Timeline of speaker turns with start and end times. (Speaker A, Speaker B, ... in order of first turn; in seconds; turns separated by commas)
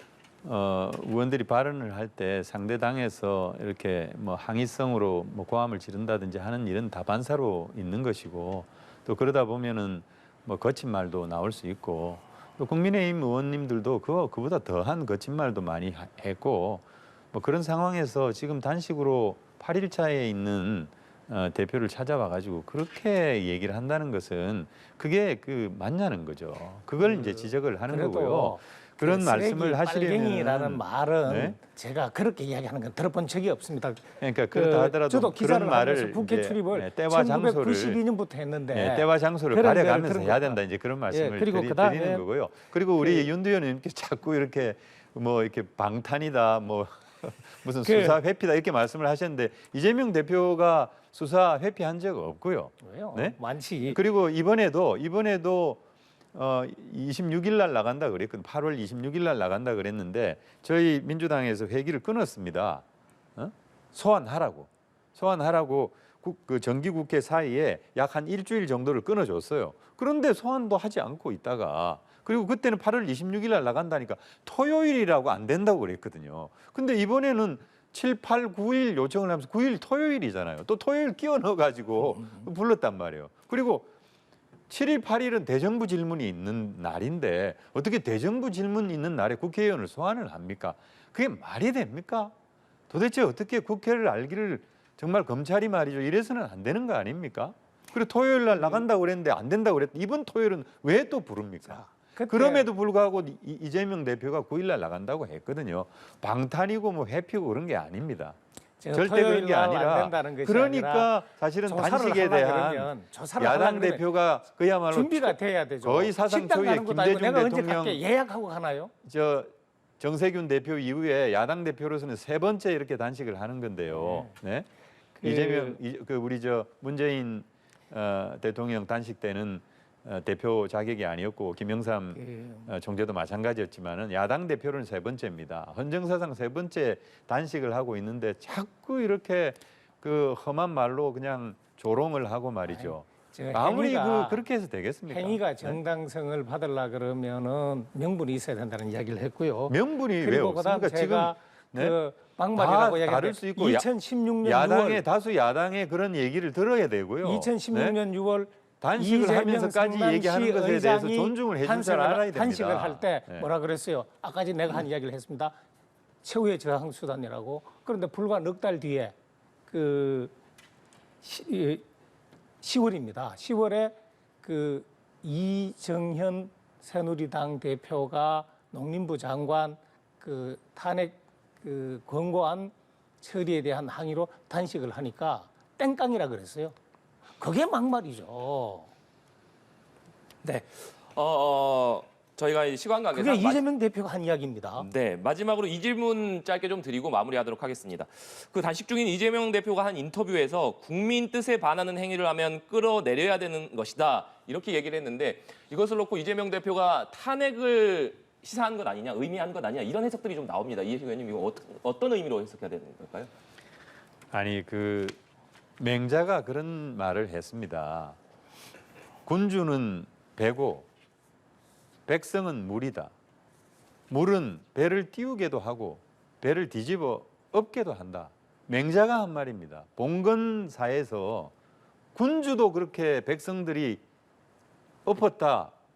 Speaker A: 0.4-31.6, Speaker B: 27.0-40.6, Speaker A: 34.2-38.0, Speaker A: 38.7-55.8, Speaker B: 41.1-42.2, Speaker B: 43.0-43.3, Speaker B: 47.8-48.2, Speaker B: 52.8-54.0, Speaker A: 56.3-62.8, Speaker A: 63.4-83.9, Speaker B: 82.2-82.5, Speaker A: 84.7-92.3, Speaker A: 92.9-108.4, Speaker B: 101.7-102.7, Speaker B: 108.8-111.1, Speaker A: 108.9-118.0, Speaker B: 111.7-114.0, Speaker B: 114.9-118.9, Speaker A: 119.0-124.7, Speaker B: 123.9-124.3, Speaker B: 125.2-125.8, Speaker A: 125.2-145.8, Speaker B: 132.2-132.7, Speaker B: 142.7-144.4, Speaker B: 145.1-155.0, Speaker A: 149.7-152.0, Speaker A: 152.5-153.9, Speaker A: 154.4-158.0, Speaker B: 157.2-165.5, Speaker A: 158.8-163.5, Speaker B: 166.2-169.1, Speaker B: 169.7-170.3, Speaker B: 171.2-171.8, Speaker B: 172.6-186.7, Speaker B: 187.4-188.9, Speaker C: 190.4-193.6, Speaker B: 193.1-194.9, Speaker C: 194.8-213.3, Speaker A: 214.3-215.2, Speaker A: 215.8-218.2, Speaker A: 219.2-220.9, Speaker A: 222.1-223.1, Speaker A: 224.1-231.5, Speaker A: 232.1-234.0, Speaker A: 235.0-235.7